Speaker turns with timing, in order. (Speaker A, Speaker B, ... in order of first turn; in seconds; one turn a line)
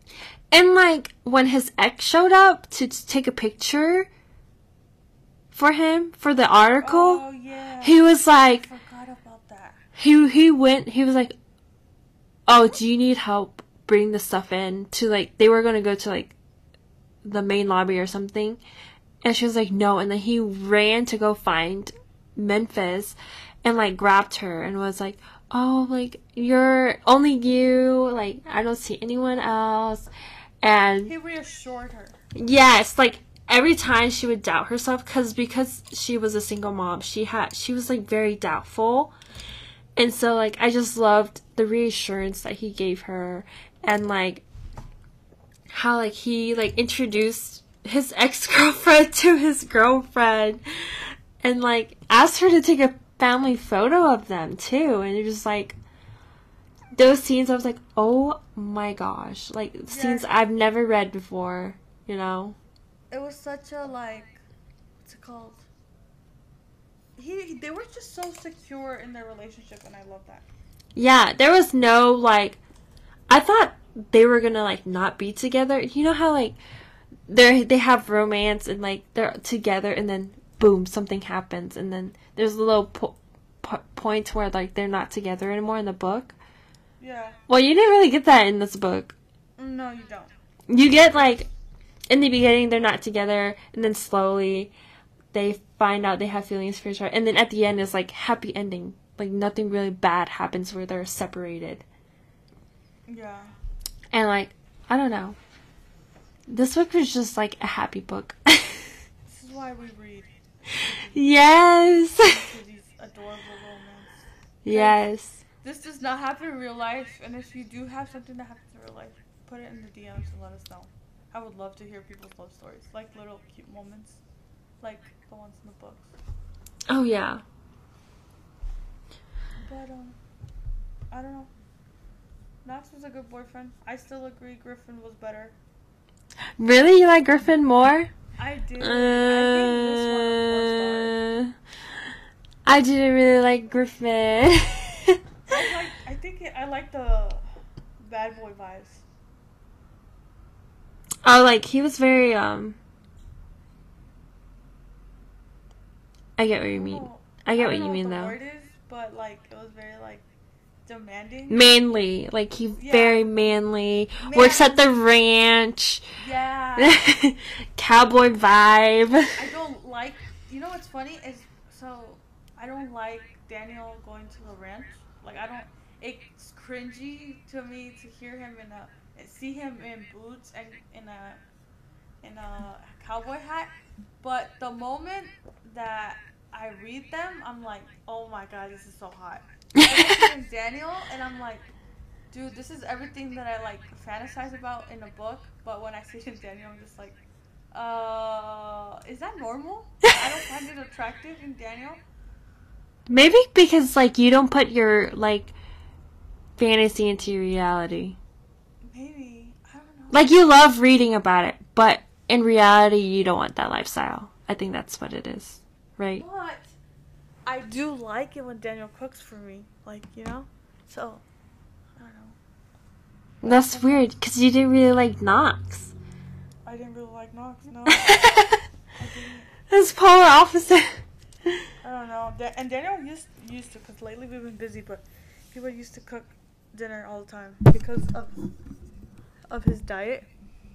Speaker A: 0.5-4.1
Speaker A: 5.5-7.2
Speaker B: 6.8-9.8
Speaker A: 7.8-8.7
Speaker A: 10.0-11.3
Speaker A: 12.5-16.3
Speaker A: 17.2-18.6
Speaker A: 19.2-30.1
Speaker A: 30.6-31.1
Speaker B: 31.1-32.2
Speaker A: 32.3-39.1
Speaker A: 40.0-44.4
Speaker A: 45.7-55.8
Speaker A: 57.0-62.6
Speaker B: 59.9-60.3
Speaker B: 63.1-64.4
Speaker B: 65.0-65.7
Speaker B: 67.2-70.5
Speaker A: 71.0-72.6
Speaker A: 73.3-76.5
Speaker A: 77.3-86.3
Speaker B: 87.0-87.4
Speaker A: 87.5-89.2
Speaker B: 89.6-90.3
Speaker A: 90.7-91.5
Speaker A: 92.1-94.7
Speaker A: 95.3-101.8
Speaker B: 103.1-103.5
Speaker A: 104.1-105.3
Speaker A: 106.5-108.9
Speaker B: 109.3-111.2
Speaker A: 111.1-112.3
Speaker B: 112.2-115.0
Speaker A: 114.6-115.3
Speaker B: 115.6-124.2
Speaker B: 124.8-126.1
Speaker A: 126.9-127.4
Speaker B: 129.6-130.2
Speaker B: 131.1-131.5
Speaker B: 132.6-135.6
Speaker A: 136.6-138.1
Speaker B: 138.4-141.2
Speaker A: 138.8-141.5
Speaker A: 142.7-145.2
Speaker B: 145.5-147.4
Speaker B: 148.0-149.0
Speaker A: 151.2-152.8
Speaker A: 156.4-158.3
Speaker B: 156.7-160.2
Speaker B: 160.8-161.6
Speaker A: 161.5-166.0
Speaker B: 162.8-163.3
Speaker B: 164.2-164.9
Speaker B: 166.2-167.0
Speaker A: 166.8-169.3
Speaker B: 169.3-181.4
Speaker B: 182.2-183.7
Speaker B: 184.2-191.7
Speaker A: 189.8-190.1
Speaker B: 192.3-197.2
Speaker B: 197.7-202.0
Speaker A: 203.1-205.5
Speaker A: 206.6-208.2
Speaker B: 208.9-210.3
Speaker A: 210.1-216.2
Speaker B: 216.1-216.8
Speaker B: 217.4-221.2
Speaker B: 222.0-222.3
Speaker B: 223.4-224.0
Speaker A: 223.4-225.9
Speaker B: 226.7-228.2
Speaker A: 228.0-228.6
Speaker B: 228.9-229.5
Speaker A: 229.7-231.7
Speaker B: 231.8-238.3
Speaker B: 239.5-240.3